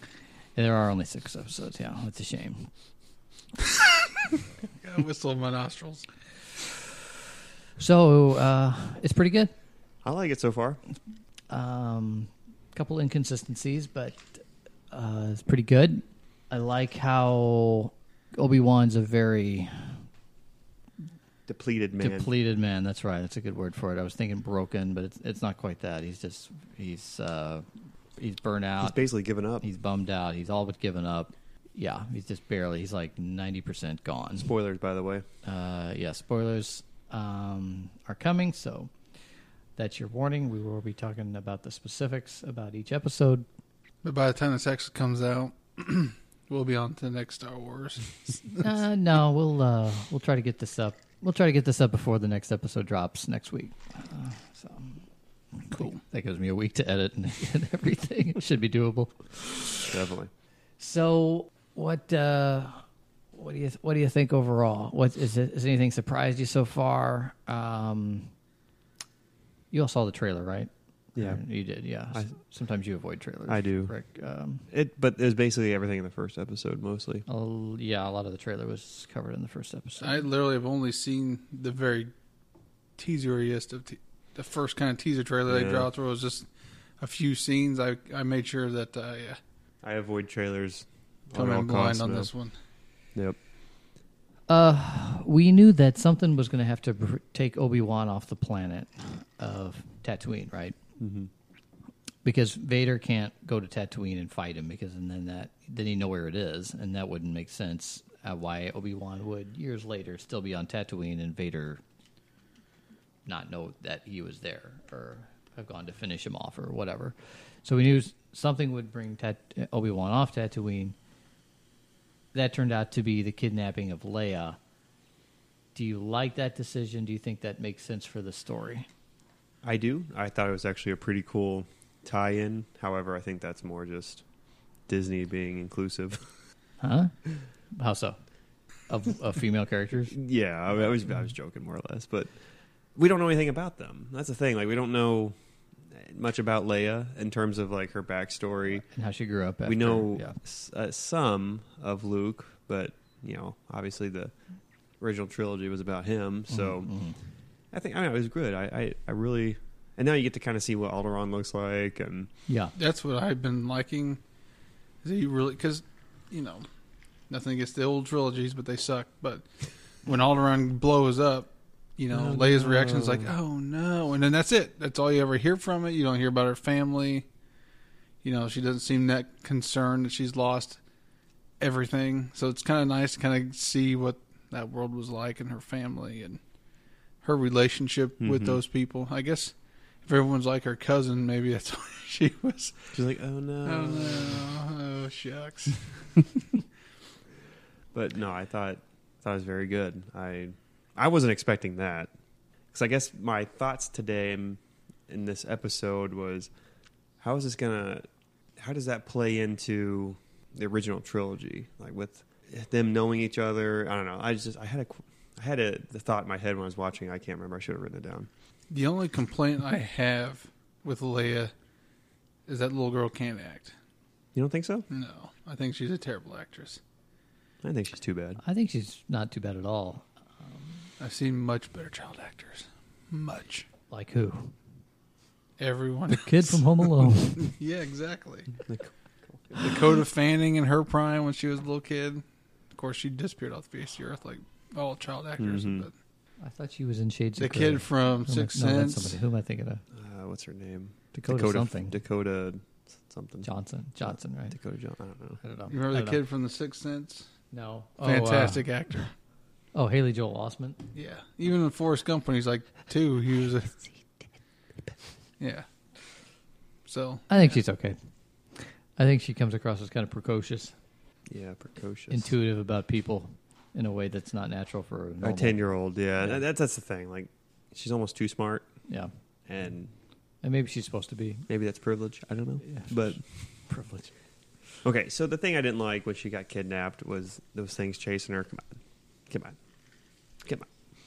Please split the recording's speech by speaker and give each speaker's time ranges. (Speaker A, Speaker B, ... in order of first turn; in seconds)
Speaker A: 0.6-2.7, 7.8-9.5, 11.5-20.0, 22.0-27.7, 28.2-29.0, 29.6-34.5, 35.4-38.9, 39.8-43.5, 48.6-55.0, 55.6-59.9, 60.8-68.3, 69.7-74.7, 77.3-80.2, 94.5-100.8, 102.2-111.8, 113.3-121.0, 122.3-124.6, 125.8-128.9, 136.8-137.1, 137.7-138.2, 138.9-140.2, 148.9-150.4, 156.5-157.2, 162.5-162.7, 228.4-230.9, 233.9-234.6, 236.1-237.5, 246.4-249.8, 251.1-251.9, 253.4-254.6, 255.4-256.2, 257.5-258.7, 259.7-260.8, 267.3-268.0, 268.6-270.8, 272.1-275.6, 280.4-281.5, 282.6-284.1
Speaker B: 4.8-6.1, 44.0-48.6, 55.7-56.0, 80.0-82.1, 83.0-86.5, 87.0-89.4, 91.3-92.5, 162.8-164.2, 165.0-166.7, 167.3-169.4, 170.0-177.3, 178.2-180.8, 181.6-186.4, 187.2-189.5, 190.1-192.9, 193.7-196.3, 218.7-221.5, 222.5-223.7, 224.9-226.8, 231.0-233.7, 235.6-238.6, 239.5-242.2, 242.7-245.9, 247.4-249.2, 255.7-257.3, 258.0-259.1, 260.9-263.8, 265.4-265.7, 266.9-267.5
Speaker C: 10.0-10.8, 21.5-22.3, 28.8-29.7, 34.4-35.3, 59.9-60.3, 73.5-73.9, 74.7-77.2, 85.5-85.9, 89.8-92.3, 101.0-101.3, 129.6-134.2, 134.9-136.3, 140.1-142.3, 143.0-145.3, 145.9-148.8, 149.7-154.3, 155.0-156.9, 157.7-162.3, 172.1-173.3, 188.2-188.6, 192.9-194.5, 197.9-202.1, 202.7-206.5, 207.2-218.3, 224.3-224.9, 227.6-228.4, 238.7-239.5, 245.4-245.9, 249.9-253.5, 254.1-255.4, 271.3-272.3, 275.2-278.7, 279.5-279.9, 281.5-283.2, 284.8-289.6